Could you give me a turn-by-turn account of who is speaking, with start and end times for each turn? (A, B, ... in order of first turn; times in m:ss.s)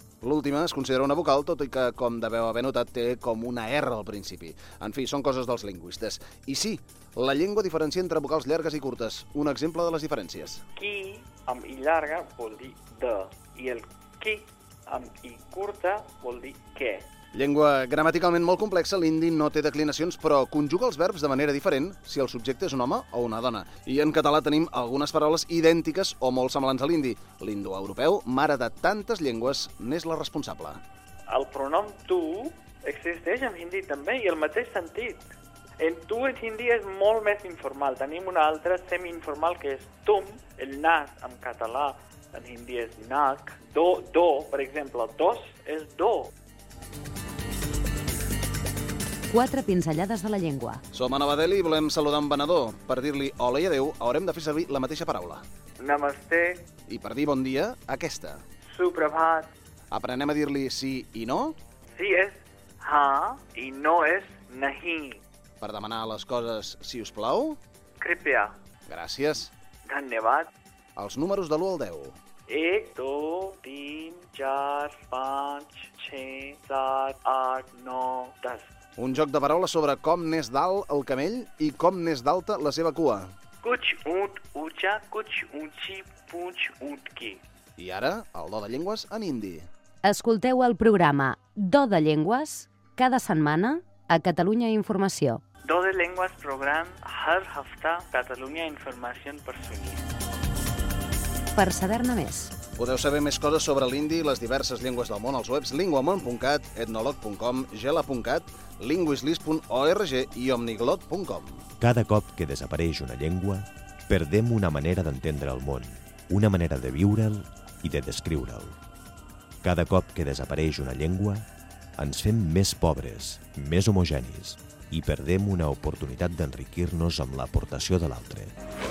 0:00.2-0:10.6 A
0:10.8-0:17.1 B
0:17.3-0:30.8 A
0:31.3-0:35.2 B
0:35.8-0:46.3 B
0:49.3-0:50.8 C
0:50.9-0:55.4 A
0:55.8-0:56.7 B
0:56.9-0:58.4 A
0:58.7-0:59.5 B
0:59.9-1:01.6 A
1:01.9-1:05.2 B
1:05.6-1:07.6 A
1:08.0-1:08.6 B
1:08.9-1:09.5 A
1:09.9-1:10.5 B
1:11.0-1:12.2 A
1:12.5-1:18.7 B
1:19.0-1:23.3 A
1:23.6-1:27.4 B
1:27.8-1:29.7 A
1:30.0-1:35.4 C
1:35.6-1:40.1 B
1:41.6-1:42.5 C
1:42.8-1:51.7 A
1:51.8-1:58.8 D
1:59.6-2:01.5 D
2:02.0-2:08.6 D